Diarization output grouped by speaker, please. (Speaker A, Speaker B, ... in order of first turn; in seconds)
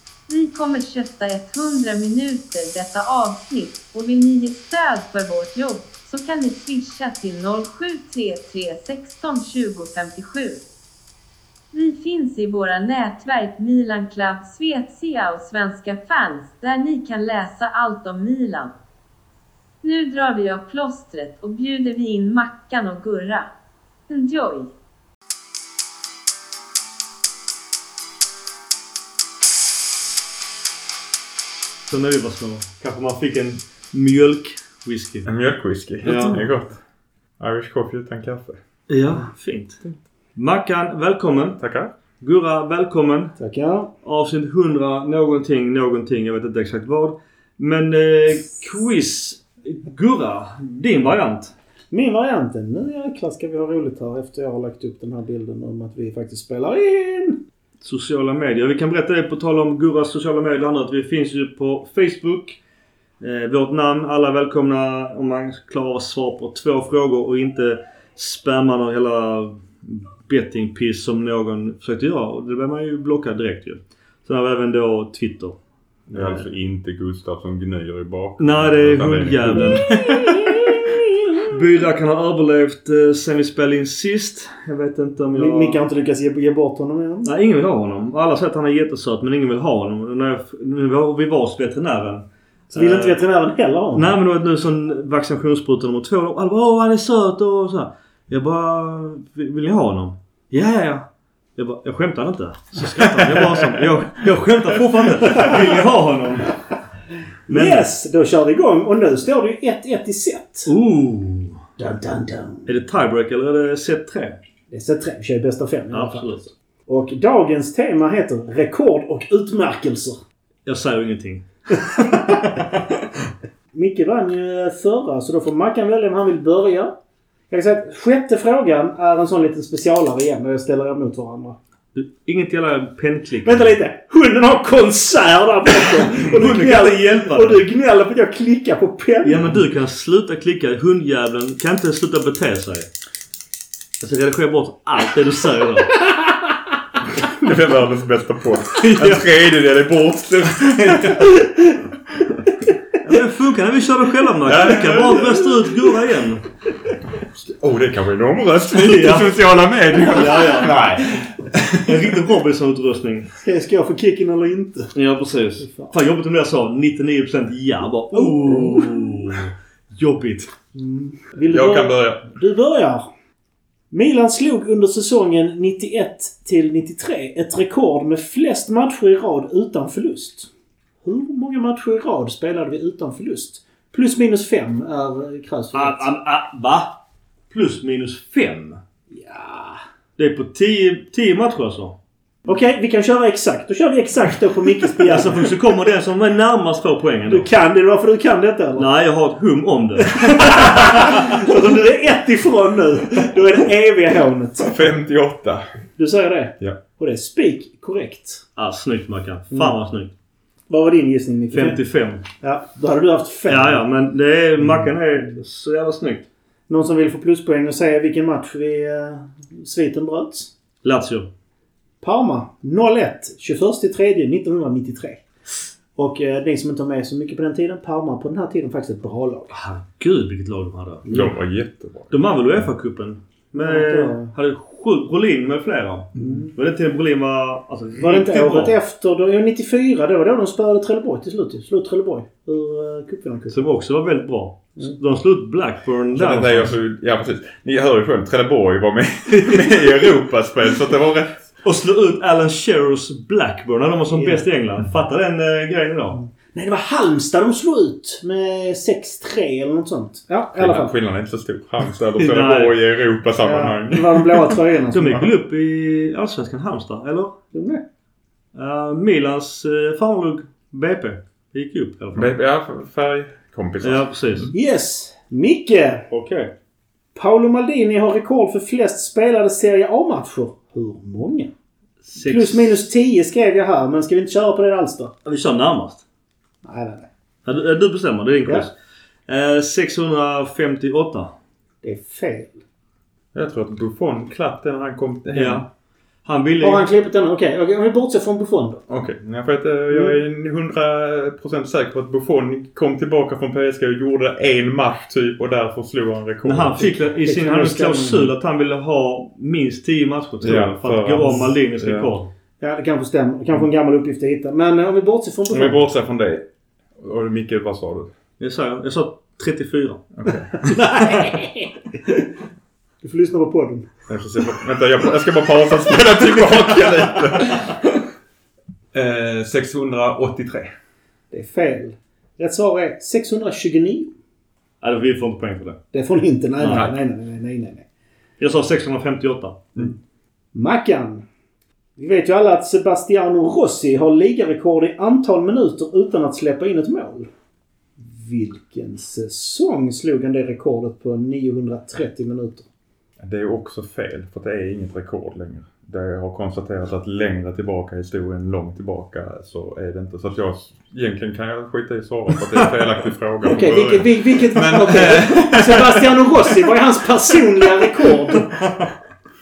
Speaker A: 0.3-10.6, 11.7-18.7, 19.8-23.5, 24.1-24.7
Speaker B: 31.9-35.3, 36.0-36.4, 38.9-39.8, 40.4-41.6, 42.2-43.4, 44.0-51.5, 57.8-62.6, 63.2-75.6, 76.1-76.4, 78.4-79.9, 81.5-85.8, 87.2-93.2, 94.0-101.1, 101.6-106.6, 107.5-107.9, 110.7-111.6, 112.7-114.4, 115.9-116.5, 120.7-122.8, 131.9-133.8, 135.9-137.6, 139.2-142.9, 144.0-145.9, 148.9-149.3, 153.0-156.5, 158.7-159.4, 159.9-160.8, 161.8-163.3, 164.9-170.5, 185.7-187.0, 187.5-188.8, 190.2-192.0, 195.0-197.5, 198.8-201.0, 208.6-210.1, 211.5-212.2, 213.5-216.3, 220.8-221.3, 229.5-231.3, 232.1-238.8, 243.5-246.7, 251.6-256.2, 262.2-262.8, 264.9-267.4, 268.6-272.3, 273.8-274.5, 276.1-276.5, 282.0-282.8, 285.3-286.0, 287.5-288.7, 289.3-291.3, 295.3-295.6, 296.2-296.9, 306.4-312.3, 318.4-320.1, 334.8-335.8, 336.6-336.9, 338.4-339.9, 368.5-368.9
Speaker C: 35.2-36.8, 37.4-38.6, 41.6-41.9, 76.1-80.4, 103.0-103.8, 147.2-151.5, 154.5-155.4, 157.2-162.1, 171.5-172.3, 204.6-205.6, 231.1-232.1, 246.1-251.5, 260.5-264.2, 272.1-274.5, 293.3-295.6, 298.9-306.9, 310.4-312.1, 315.5-316.4, 317.0-318.1, 320.2-320.5, 324.1-327.9, 328.9-330.7, 336.7-336.9, 353.2-366.3
Speaker D: 36.1-36.4, 43.4-43.9, 51.9-57.4, 79.8-80.6, 85.3-87.3, 92.7-94.1, 107.5-110.7, 111.8-112.7, 114.7-120.2, 122.0-122.4, 123.7-127.0, 127.5-131.6, 133.4-139.6, 146.0-146.5, 163.4-164.9, 165.6-165.9, 168.2-169.1, 170.8-173.1, 173.9-180.5, 181.0-186.1, 189.1-189.8, 192.5-195.5, 197.3-198.9, 200.0-204.7, 206.0-208.4, 210.7-211.8, 212.4-213.8, 214.6-215.3, 216.7-220.5, 222.0-225.2, 225.9-229.6, 233.5-234.3, 236.2-236.5, 238.0-243.6, 254.1-254.4, 256.1-260.9, 263.4-265.2, 267.5-267.8, 274.5-276.1, 277.1-281.5, 282.2-285.1, 286.6-287.1, 291.8-292.6, 296.6-298.8, 306.8-308.3, 312.6-315.8, 320.5-322.3, 323.0-323.9, 331.3-334.1, 335.9-337.9, 340.5-341.2, 342.0-347.3, 348.0-352.7, 363.5-368.5